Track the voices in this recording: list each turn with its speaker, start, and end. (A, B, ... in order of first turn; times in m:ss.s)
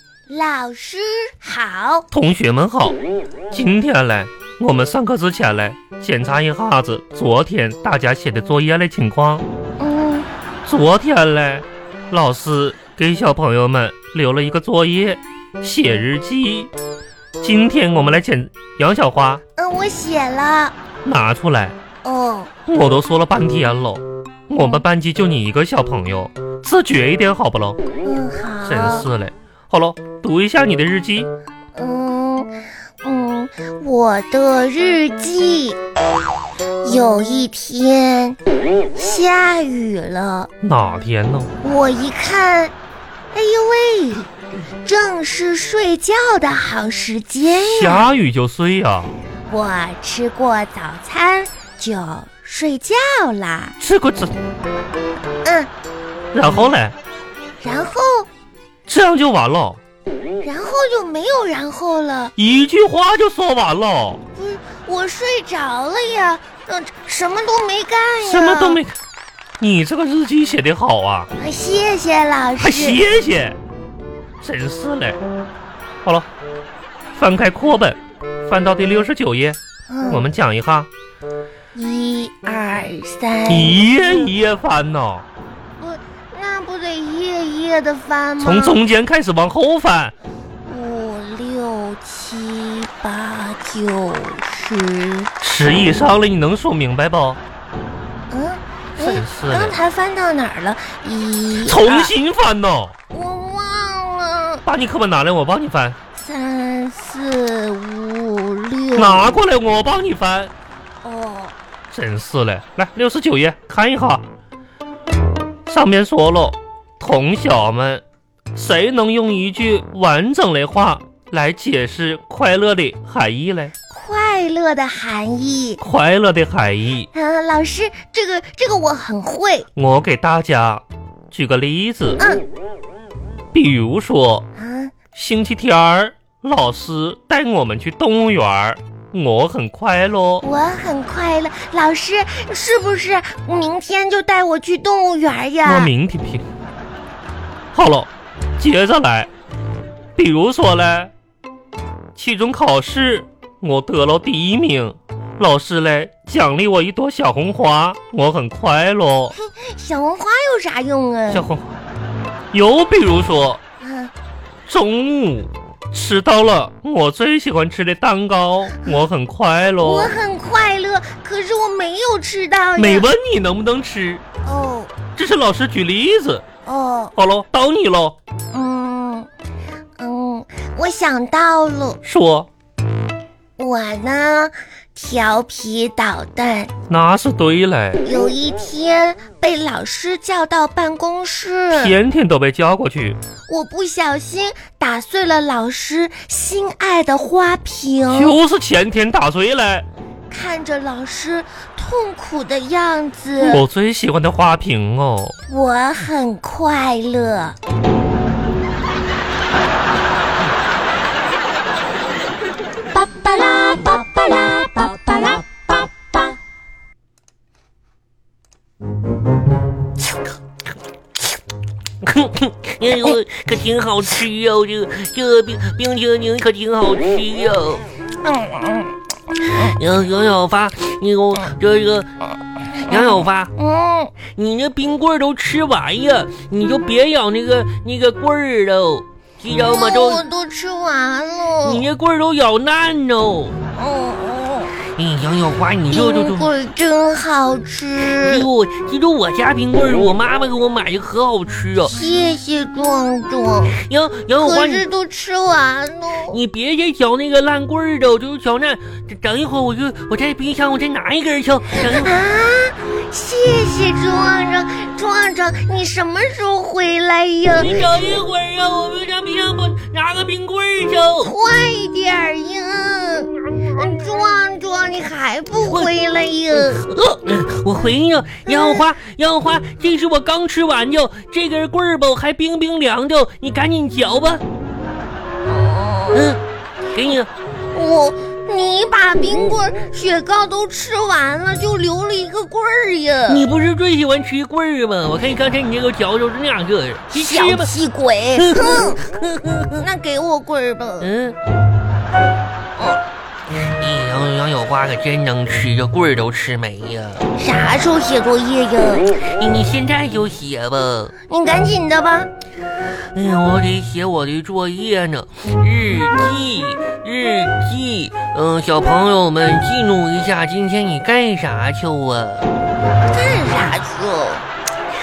0:00.3-0:02.1 A
0:02.1-0:03.0 B
0:03.5-0:09.4 B
0:09.8-0:10.3 A
0:10.6-0:16.7 B
0:17.4-0:19.4 B
0:19.6-0:20.7 A
0:21.0-0:21.8 B
0:22.0-0:22.5 A
0:22.7-0:27.8 B
0:24.5-0:24.8 A
0:28.0-0:29.1 A
0:28.6-0:31.3 B
0:31.7-0:35.8 A
0:36.8-0:38.4 A
0:38.9-0:40.5 A
0:40.6-0:41.5 B
0:41.6-0:42.7 A
0:43.3-0:44.3 A
0:44.8-0:48.1 A
0:47.6-0:49.2 B
0:49.5-0:53.8 A
0:53.8-0:54.3 B
0:55.4-0:55.7 A
0:56.3-0:56.9 B
0:57.6-0:58.3 A
0:58.9-0:59.8 B
1:00.4-1:02.3 A
1:02.4-1:04.2 B
1:04.3-1:08.8 A
1:08.2-1:09.0 B
1:09.6-1:11.3 B
1:11.4-1:13.0 A
1:12.6-1:13.6 B
1:14.4-1:15.2 B
1:17.2-1:19.6 B
1:19.9-1:20.3 A
1:20.1-1:20.9 B
1:21.7-1:24.3 A
1:23.5-1:25.2 B
1:25.8-1:28.8 A
1:28.4-1:30.1 B
1:30.6-1:35.3 A
1:35.4-1:37.4 B
1:38.3-1:42.1 A
1:39.0-1:39.8 B
1:41.6-1:42.9 B
1:43.1-1:44.6 A
1:44.6-1:46.0 B
1:46.1-1:49.4 A
1:48.9-1:50.5 B
1:51.0-1:51.6 A
1:51.9-1:54.2 B
1:55.7-1:58.0 B
1:58.5-2:03.7 B
2:03.9-2:05.8 A
2:05.8-2:07.1 B
2:07.1-2:09.7 A
2:09.8-2:12.2 B
2:12.2-2:12.4 A
2:13.5-2:14.4 B
2:14.6-2:14.9 A
2:15.1-2:20.4 B
2:20.4-2:25.9 A
2:25.6-2:26.4 B
2:27.7-2:29.3 B
2:30.2-2:31.1 B
2:32.1-2:39.3 B
2:39.4-2:41.4 A
2:41.3-2:41.8 B
2:42.5-2:43.6 B
2:43.8-2:44.1 A
2:44.7-2:50.1 B
2:49.8-2:53.1 A
2:52.8-2:54.2 B
2:54.4-2:54.9 A
2:55.2-2:56.4 B
2:56.6-2:57.1 A
2:57.2-2:58.1 B
2:58.5-2:59.3 A
3:00.0-3:02.0 A
3:02.0-3:02.5 B
3:03.6-3:06.7 A
3:06.9-3:08.0 B
3:08.0-3:12.0 A
3:11.7-3:13.2 B
3:13.5-3:18.4 A
3:18.1-3:19.8 B
3:20.3-3:23.6 A
3:23.4-3:25.3 B
3:25.5-3:27.6 A
3:42.0-3:47.8 C
3:48.2-3:48.9 A
3:49.5-3:52.1 C
3:52.8-3:54.1 A
3:52.9-3:53.5 C
3:54.3-4:00.2 C
3:59.6-4:01.9 A
4:01.6-4:03.6 C
4:03.7-4:04.7 A
4:05.0-4:06.5 C
4:05.9-4:08.5 A
4:08.2-4:11.9 C
4:11.8-4:13.8 A
4:13.7-4:14.8 C
4:14.3-4:16.4 A
4:16.3-4:22.2 C
4:21.8-4:27.9 A
4:27.5-4:31.3 C
4:31.2-4:36.8 A
4:35.6-4:35.9 C
4:36.5-4:44.4 C
4:38.4-4:38.9 A
4:45.5-4:46.3 A
4:46.1-4:46.4 C
4:46.9-4:47.3 C
4:47.7-4:53.5 A
4:53.3-4:57.7 C
4:57.1-4:59.0 A
4:58.4-4:59.8 C
4:59.7-5:01.1 A
5:01.0-5:01.4 C
5:03.6-5:07.3 C
5:07.3-5:09.1 A
5:09.4-5:11.1 C
5:11.3-5:12.3 A
5:13.1-5:22.5 C
5:23.1-5:24.4 A